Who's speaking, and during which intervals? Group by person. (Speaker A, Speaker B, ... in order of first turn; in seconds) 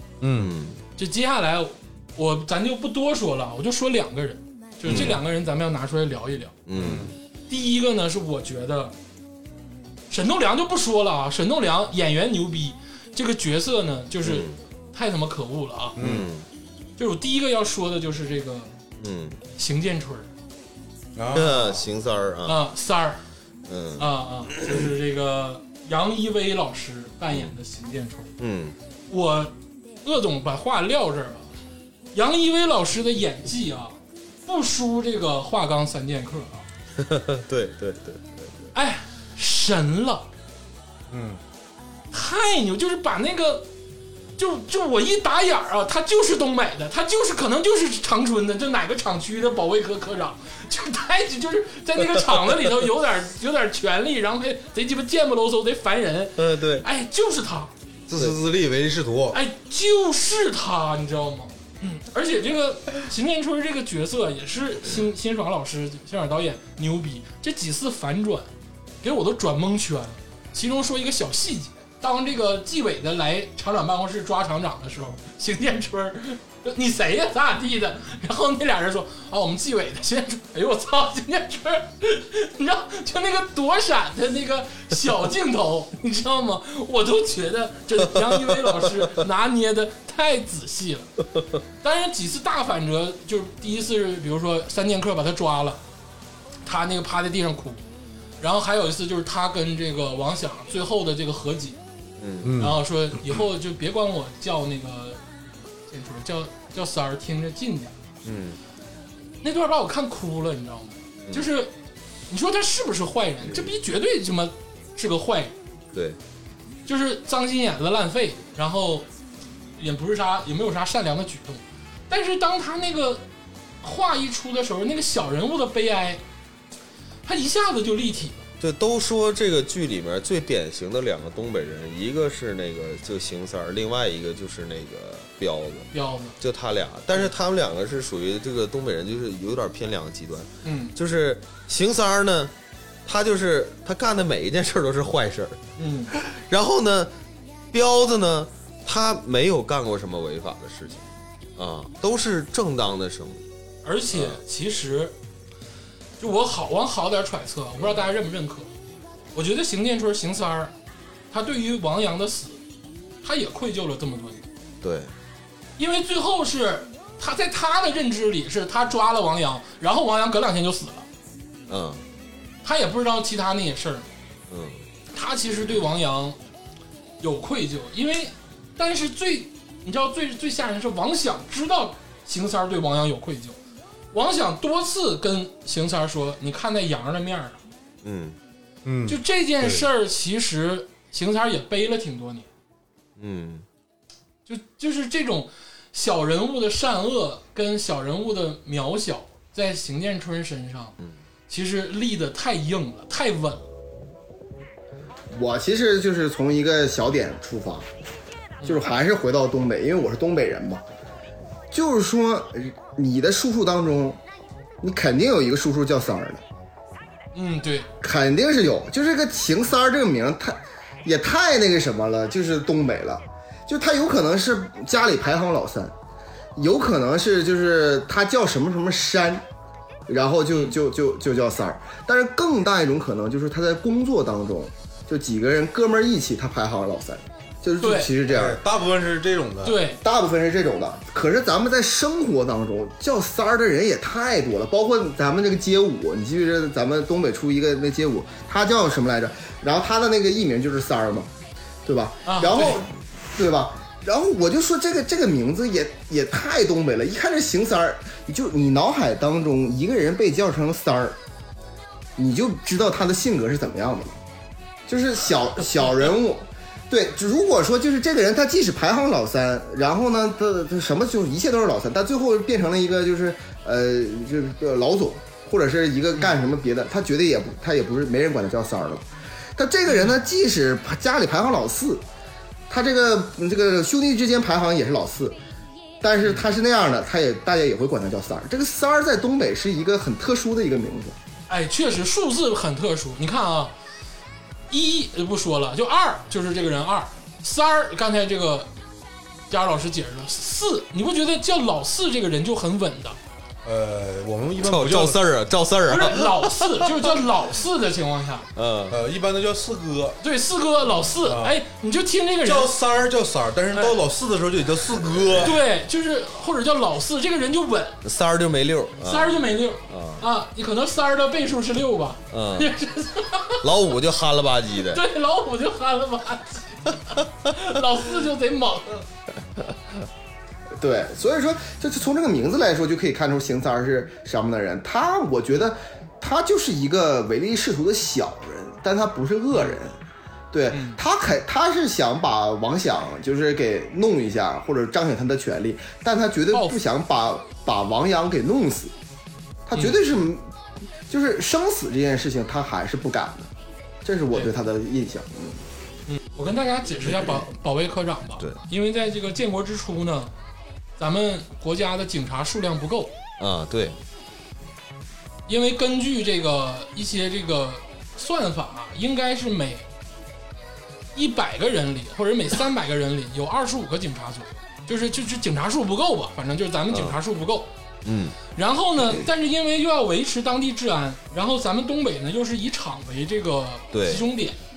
Speaker A: 0.2-0.5, 6.7-7.1, 16.0-16.3, 21.2-21.9, 41.1-41.4, 58.1-59.4, 102.4-102.8, 188.8-189.9, 238.2-239.8, 303.6-305.2, 308.9-310.2, 311.2-311.6, 312.4-315.6
Speaker B: 0.3-0.8, 4.8-5.2, 6.7-7.1, 14.2-14.6, 16.0-16.5, 19.0-19.4, 21.3-22.6, 23.7-24.7, 28.4-28.8, 37.0-38.7, 56.4-56.9, 88.2-88.9, 102.2-102.6, 108.2-108.6, 128.6-135.9, 136.4-142.5, 143.1-145.6, 146.1-147.1, 147.7-151.0, 151.6-153.4, 154.1-154.4, 157.8-158.1, 164.8-165.1, 171.7-172.0, 174.5-174.8, 188.0-188.4, 193.2-193.7, 304.6-307.1, 308.6-309.0, 318.0-320.2, 322.3-322.7, 323.6-325.0, 363.4-364.0, 376.9-377.2, 378.1-378.4, 383.9-384.2
Speaker C: 1.0-6.6, 7.5-8.9, 10.1-16.0, 17.0-18.7, 19.6-20.3, 22.5-23.2, 24.0-28.3, 29.1-31.5, 32.1-36.7, 38.7-40.3, 42.1-43.7, 44.4-57.7, 59.3-68.5, 69.0-91.1, 91.8-95.8, 96.7-97.8, 98.4-101.8, 102.6-105.2, 105.9-108.0, 109.4-111.7, 112.3-115.5, 116.9-119.1, 119.8-123.3, 123.8-126.2, 127.2-128.5, 135.9-136.3, 140.6-140.9, 145.8-146.1, 153.8-155.2, 156.2-158.7, 159.3-160.7, 161.3-162.6, 163.2-164.4, 165.8-171.1, 172.6-174.1, 175.1-176.4, 177.2-183.6, 184.1-187.6, 189.1-192.5, 194.5-200.9, 201.5-203.6, 217.3-217.9, 237.8-238.1, 239.6-240.0, 252.2-252.8, 279.9-280.2, 291.5-293.7, 294.7-298.7, 299.5-303.2, 305.9-308.5, 310.2-312.7, 313.7-314.0, 315.4-318.0, 319.0-323.6, 324.9-329.1, 339.5-339.8, 340.7-341.0, 349.8-350.0, 356.1-360.3, 361.0-363.1, 365.5-369.9, 371.1-377.7, 378.5-384.6
Speaker D: 205.3-207.9, 208.7-210.8, 211.7-214.2, 214.8-216.4, 218.0-225.9, 226.6-229.5, 230.1-238.6, 240.0-251.3, 251.8-261.2, 262.2-264.2, 264.9-282.0, 282.7-285.4, 286.0-291.2, 330.8-340.0, 340.5-348.9, 349.7-350.5, 351.1-353.5, 354.0-355.6